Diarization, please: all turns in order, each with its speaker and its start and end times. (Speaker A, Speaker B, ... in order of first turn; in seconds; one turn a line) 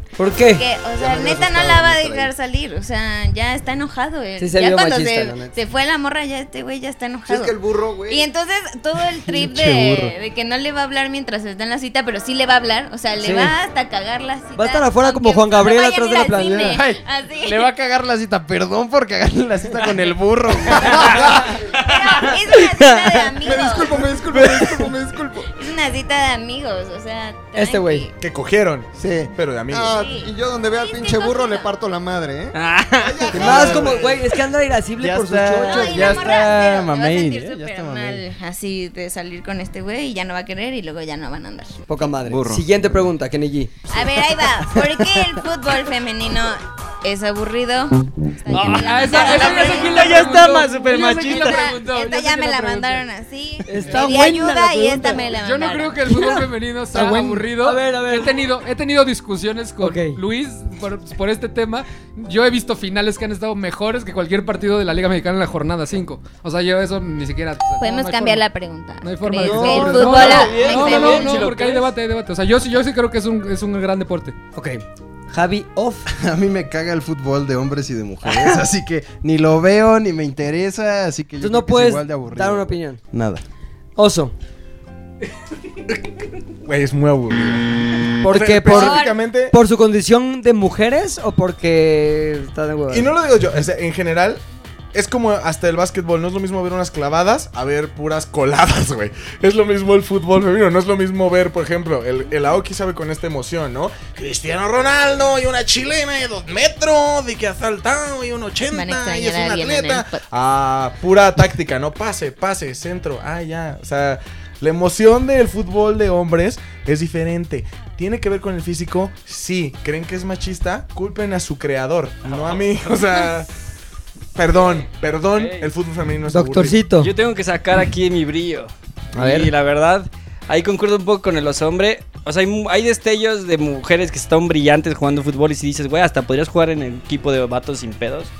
Speaker A: 0.2-0.7
Speaker B: 0.4-7.5
Speaker C: 0.9-2.3
Speaker A: 4.4-5.5
Speaker C: 7.2-8.3
Speaker B: 8.1-17.7
Speaker D: 9.3-10.1
Speaker A: 13.2-13.5
Speaker A: 14.6-16.8
Speaker D: 16.6-21.3
Speaker B: 20.9-24.0
Speaker C: 21.0-21.6
Speaker E: 21.9-22.3
Speaker A: 22.5-23.1
Speaker C: 23.4-25.5
Speaker B: 25.5-28.1
Speaker A: 27.5-28.1
Speaker F: 28.2-30.0
Speaker C: 29.0-34.2
Speaker B: 29.9-31.7
Speaker E: 32.5-33.8
Speaker A: 33.3-36.2
Speaker D: 33.4-33.9
Speaker D: 35.0-38.2
Speaker B: 35.6-41.8
Speaker A: 41.9-43.7
Speaker C: 42.2-42.6
Speaker B: 43.9-50.4
Speaker E: 48.5-50.6
Speaker G: 48.7-53.0
Speaker D: 49.9-51.7
Speaker B: 50.9-56.2
Speaker A: 53.6-55.3
Speaker G: 55.3-68.4
Speaker A: 56.1-56.4
Speaker A: 56.9-58.4
Speaker A: 59.8-60.2
Speaker B: 67.8-71.5
Speaker G: 69.0-74.3
Speaker A: 69.4-70.5
Speaker E: 70.0-71.9
Speaker A: 74.5-76.1
Speaker D: 76.1-83.4
Speaker A: 81.4-83.0
Speaker A: 84.0-84.3
Speaker F: 86.6-89.5
Speaker A: 88.2-93.1
Speaker B: 88.7-89.2
Speaker F: 92.9-94.4
Speaker F: 94.9-123.5
Speaker B: 108.7-110.2
Speaker E: 122.2-122.8
Speaker F: 124.3-126.8
Speaker E: 124.5-125.7
Speaker A: 126.3-127.1
Speaker E: 127.0-138.3
Speaker A: 129.1-129.5